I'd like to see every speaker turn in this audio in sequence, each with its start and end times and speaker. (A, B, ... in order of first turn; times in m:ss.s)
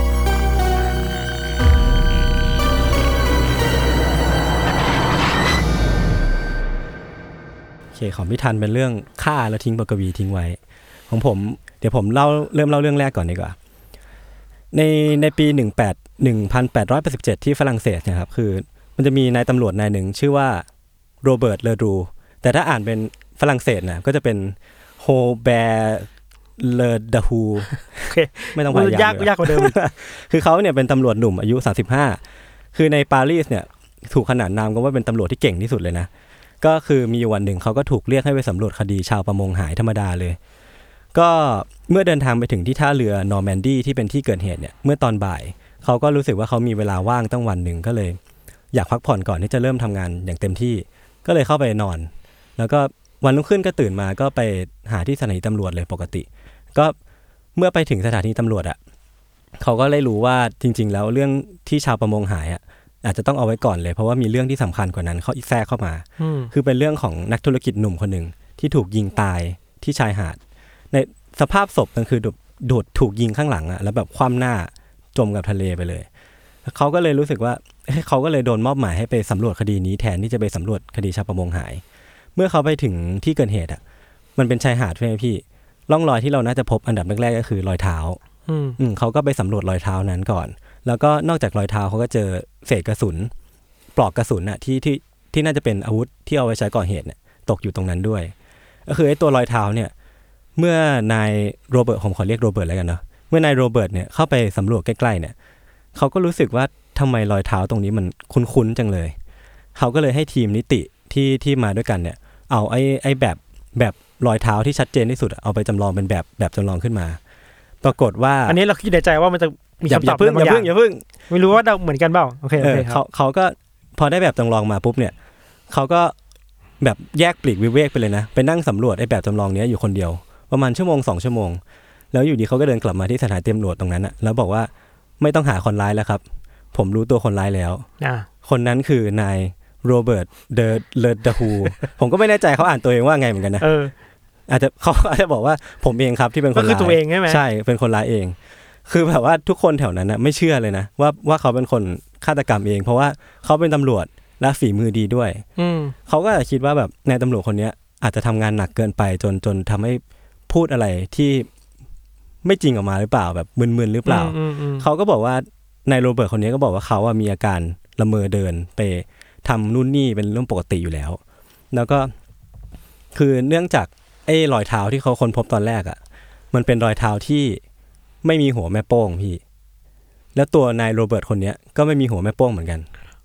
0:07.9-0:10.6 A
0:11.1-0:13.6 A
0:14.7-0:20.6 A
0:21.2-0:27.8 A
0:28.0-0:29.8 B
0:28.5-0:32.2 A
0:32.7-0:36.1 A
0:36.6-0:40.4 A
0:41.1-0:48.2 A
0:48.7-0:56.9 A
0:57.6-0:58.8 A
0:59.6-1:10.4 A
1:06.2-1:06.5 B
1:10.9-1:16.1 A
1:16.6-1:21.8 A
1:22.3-1:23.8 A
1:24.4-1:28.2 A
1:28.5-1:28.8 B
1:28.8-1:33.3 A
1:34.0-1:38.3 A
1:38.9-1:39.9 A
1:40.6-1:45.3 A
1:45.9-1:49.1 A
1:49.8-1:57.2 A
1:57.8-1:58.6 A
1:58.5-2:00.7 B
1:59.8-2:01.0 A
2:01.3-2:03.0 B
2:02.6-2:05.1 A
2:05.7-2:06.1 A
2:06.8-2:11.6 A
2:12.1-2:16.2 A
2:16.7-2:17.9 A
2:18.0-2:18.3 B
2:18.4-2:23.7 A
2:23.6-2:23.9 B
2:24.5-2:28.4 A
2:26.5-2:27.4 B
2:28.9-2:35.4 A
2:35.6-2:36.0 B
2:36.1-2:41.5 A
2:42.4-2:51.2 A
2:44.0-2:44.8 B
2:51.7-2:52.1 A
2:53.1-2:56.0 A
2:56.5-2:57.6 A
2:58.2-2:59.4 A
3:00.3-3:02.8 A